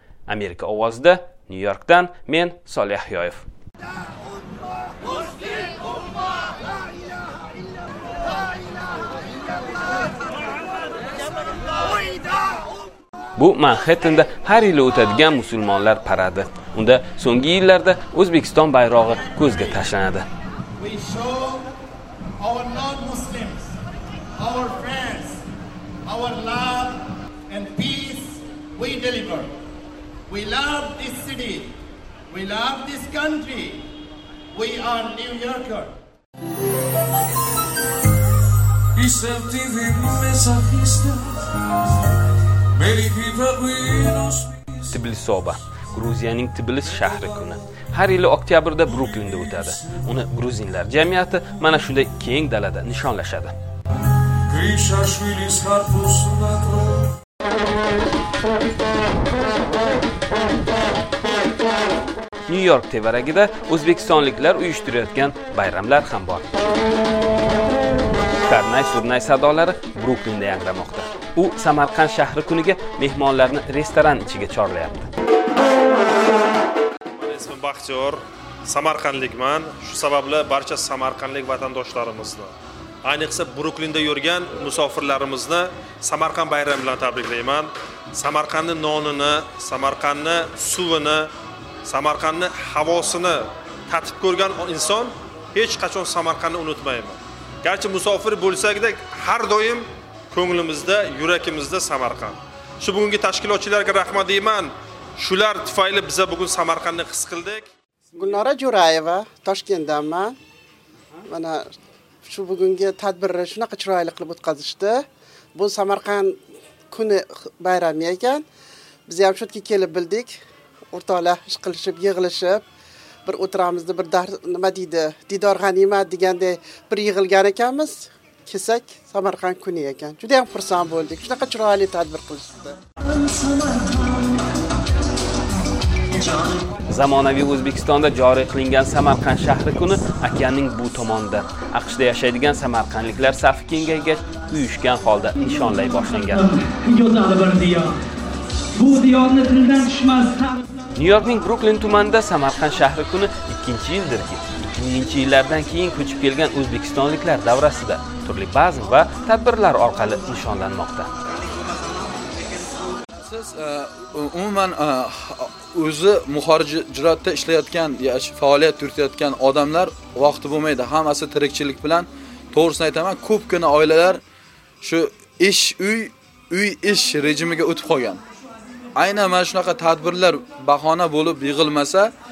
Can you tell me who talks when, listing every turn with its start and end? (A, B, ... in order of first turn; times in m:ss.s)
0:00.3-0:03.4 A
0:13.4-0:20.2 A
0:20.8-0:21.7 B
0:22.4-0:23.7 B
0:24.4-0:25.4 B
0:26.0-0:29.5 B
0:30.3-0:31.7 B
0:32.3-0:33.9 B
0:34.5-0:36.0 B
0:39.0-0:41.6 C
0:42.8-0:44.5 C
0:44.9-0:53.5 A
0:54.5-0:57.0 C
1:02.5-1:06.6 A
1:08.4-1:15.1 A
1:17.2-1:22.5 D
1:23.0-1:31.3 D
1:31.9-1:47.7 D
1:48.2-1:50.4 E
1:51.3-1:51.7 E
1:52.2-1:55.0 E
1:55.6-1:56.4 E
1:56.9-1:58.4 E
1:59.1-2:00.4 E
2:00.9-2:02.6 E
2:03.2-2:12.8 E
2:13.7-2:14.0 F
2:16.9-2:26.5 A
2:26.3-2:28.0 F
2:28.7-2:30.8 F
2:30.9-2:41.1 A
2:43.2-2:54.2 G
2:54.8-2:58.2 G
2:59.0-3:02.1 G